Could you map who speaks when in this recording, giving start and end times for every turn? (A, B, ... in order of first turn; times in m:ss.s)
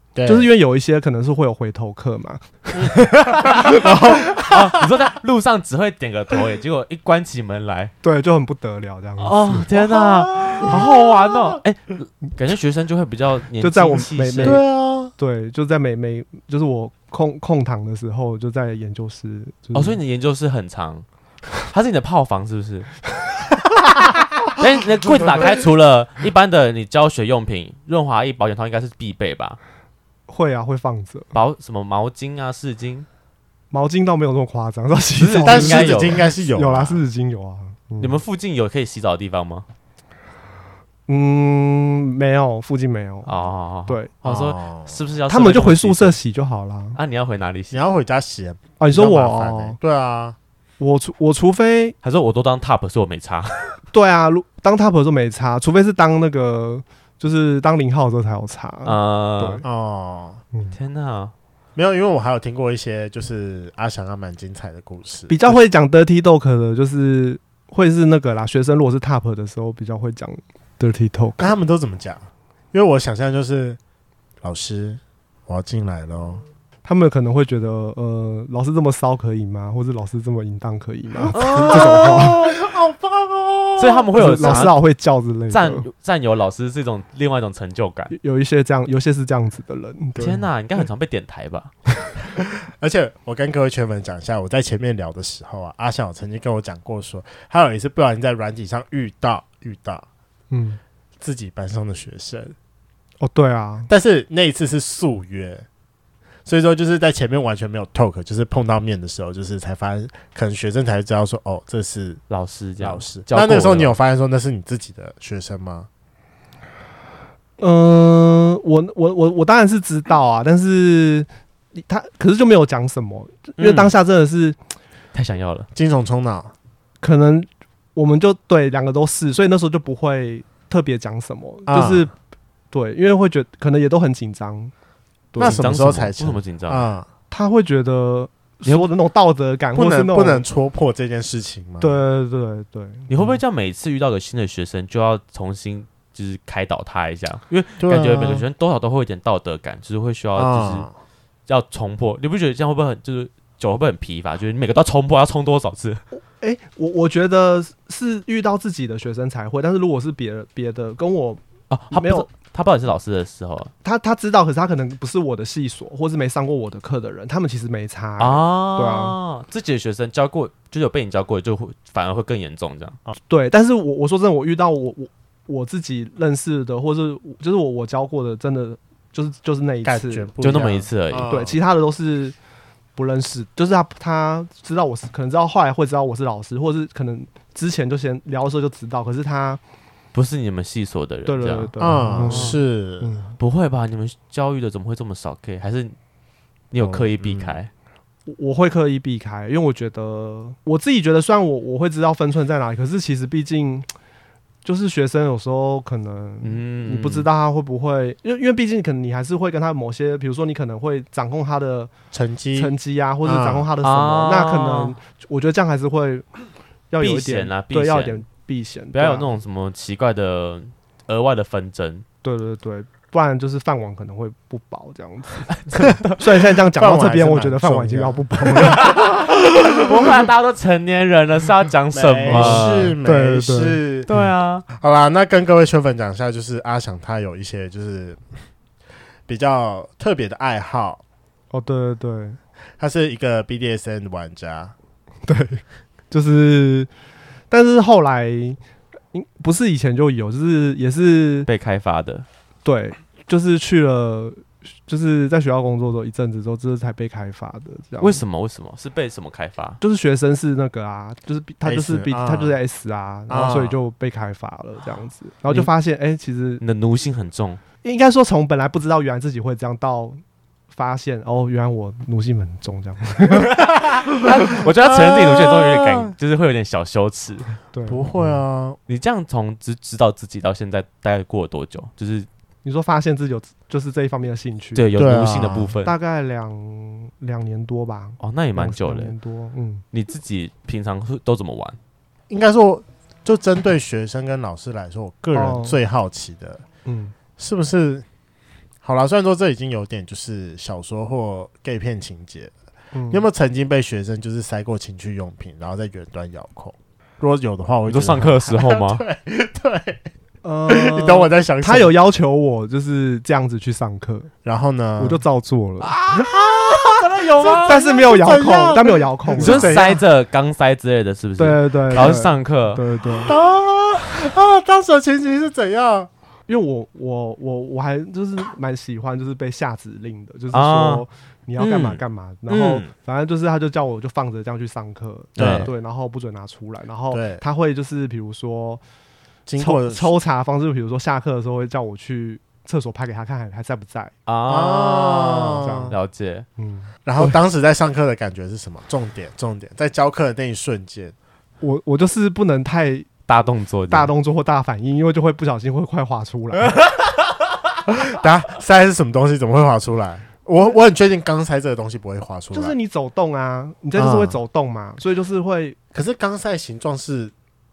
0:00.2-0:00.5 A
0:00.3-0:04.4 B
0:03.4-0:07.9 C
0:04.4-0:04.9 A
0:08.0-0:09.7 B
0:09.2-0:14.6 C
0:09.7-0:11.6 A
0:13.6-0:14.6 B
0:14.4-0:15.1 A
0:15.2-0:20.0 B
0:19.7-0:21.0 C
0:21.6-0:22.9 C
0:24.6-0:29.6 C
0:30.3-0:31.4 B
0:31.3-0:33.1 C
0:33.7-0:38.2 B
0:35.2-0:36.3 C
0:35.4-0:37.0 A
0:38.0-0:39.7 C
0:41.1-0:44.1 B
0:43.3-0:46.2 C
0:44.2-0:45.0 A
0:45.3-0:47.0 B
0:47.0-0:47.8 C
0:47.7-0:50.4 A
0:48.8-0:49.8 B
0:50.8-0:52.0 B
0:52.0-0:53.8 C
0:53.9-0:59.6 B
0:58.8-0:59.6 C
0:59.6-1:00.4 A
1:00.7-1:01.3 C
1:01.8-1:05.6 A
1:05.3-1:11.5 B
1:11.4-1:13.8 A
1:14.4-1:16.4 A
1:16.8-1:22.4 B
1:21.3-1:22.4 C
1:21.4-1:24.7 A
1:23.8-1:24.8 C
1:24.2-1:25.9 B
1:25.5-1:28.1 C
1:28.1-1:30.4 B
1:30.2-1:31.7 C
1:32.2-1:40.1 A
1:40.5-1:40.8 B
1:41.2-1:42.6 A
1:43.2-1:43.9 B
1:43.9-1:45.7 A
1:46.5-1:52.2 A
1:52.3-1:54.0 C
1:52.8-1:55.9 A
1:57.6-2:04.6 B
2:03.6-2:03.9 C
2:05.1-2:05.7 C
2:05.8-2:06.5 A
2:07.0-2:12.1 B
2:11.7-2:12.1 A
2:12.7-2:14.7 B
2:15.3-2:15.6 B
2:15.4-2:17.1 A
2:15.4-2:16.9 C
2:17.3-2:20.5 B
2:19.8-2:22.0 A
2:21.8-2:23.4 B
2:23.1-2:30.9 C
2:27.8-2:28.5 A
2:30.4-2:30.9 A
2:31.5-2:36.0 C
2:36.1-2:42.3 B
2:41.7-2:43.7 C
2:43.8-2:49.2 B
2:48.2-2:53.0 C
2:53.3-3:00.3 B
2:59.8-3:01.6 A
3:00.4-3:01.3 C
3:01.3-3:02.4 B
3:03.0-3:09.6 B
3:10.1-3:12.6 C
3:11.3-3:13.4 B
3:11.8-3:13.2 A
3:13.4-3:16.0 C
3:16.7-3:17.7 C
3:16.8-3:17.6 A
3:18.3-3:23.9 B
3:24.6-3:31.9 B
3:26.4-3:27.3 C
3:32.1-3:32.7 A
3:32.6-3:36.3 B
3:33.2-3:33.7 A
3:33.8-3:35.0 C
3:36.9-3:39.4 B
3:37.0-3:38.2 C
3:38.9-3:42.0 C
3:42.2-3:49.1 B
3:45.7-3:46.2 C
3:46.6-3:49.0 A
3:48.6-3:53.0 C
3:51.9-3:54.1 A
3:52.3-3:53.8 B
3:54.1-3:54.6 C
3:54.7-3:58.2 A
3:59.3-4:01.0 A
4:01.5-4:02.4 B
4:02.8-4:04.8 A
4:05.3-4:06.9 B
4:07.5-4:08.6 B
4:09.1-4:11.5 B
4:11.5-4:12.3 C
4:12.6-4:18.2 B
4:18.0-4:19.8 C
4:19.8-4:26.6 B
4:21.6-4:22.6 A
4:23.3-4:23.8 A
4:26.6-4:27.6 C
4:27.8-4:30.2 B
4:30.7-4:33.6 B
4:33.5-4:37.5 C
4:34.5-4:36.1 A
4:37.7-4:38.4 B
4:37.9-4:38.8 A
4:38.9-4:42.3 C
4:42.6-4:44.9 B
4:44.8-4:45.9 C
4:45.0-4:45.8 A
4:45.8-4:49.8 B
4:48.2-4:49.1 C
4:49.9-4:51.8 C
4:52.3-4:56.6 A
4:55.3-4:55.8 B
4:56.9-4:57.1 B
4:57.4-4:58.0 A
4:58.8-5:02.5 A
5:02.9-5:03.3 B
5:03.1-5:10.0 A
5:07.9-5:09.0 C
5:10.4-5:14.3 B
5:10.7-5:11.9 A
5:14.4-5:15.2 A
5:15.0-5:16.0 B
5:15.9-5:17.8 C
5:16.1-5:20.0 A
5:17.6-5:19.8 B
5:19.4-5:22.8 C
5:21.4-5:23.3 B
5:23.3-5:26.1 A
5:26.5-5:38.8 B
5:30.5-5:31.1 C
5:31.6-5:32.9 C
5:35.4-5:35.7 C
5:35.4-5:35.7 A
5:37.1-5:37.4 A
5:39.5-5:40.2 A
5:39.6-5:44.1 B
5:44.3-5:46.5 C
5:44.5-5:46.0 A
5:45.6-5:46.0 B
5:46.6-5:46.9 B
5:47.1-5:51.2 A
5:51.6-5:53.1 B
5:53.3-5:54.1 C
5:53.9-5:56.8 B
5:57.9-6:02.8 A
6:02.5-6:05.8 B
6:04.0-6:04.4 A
6:05.9-6:07.3 A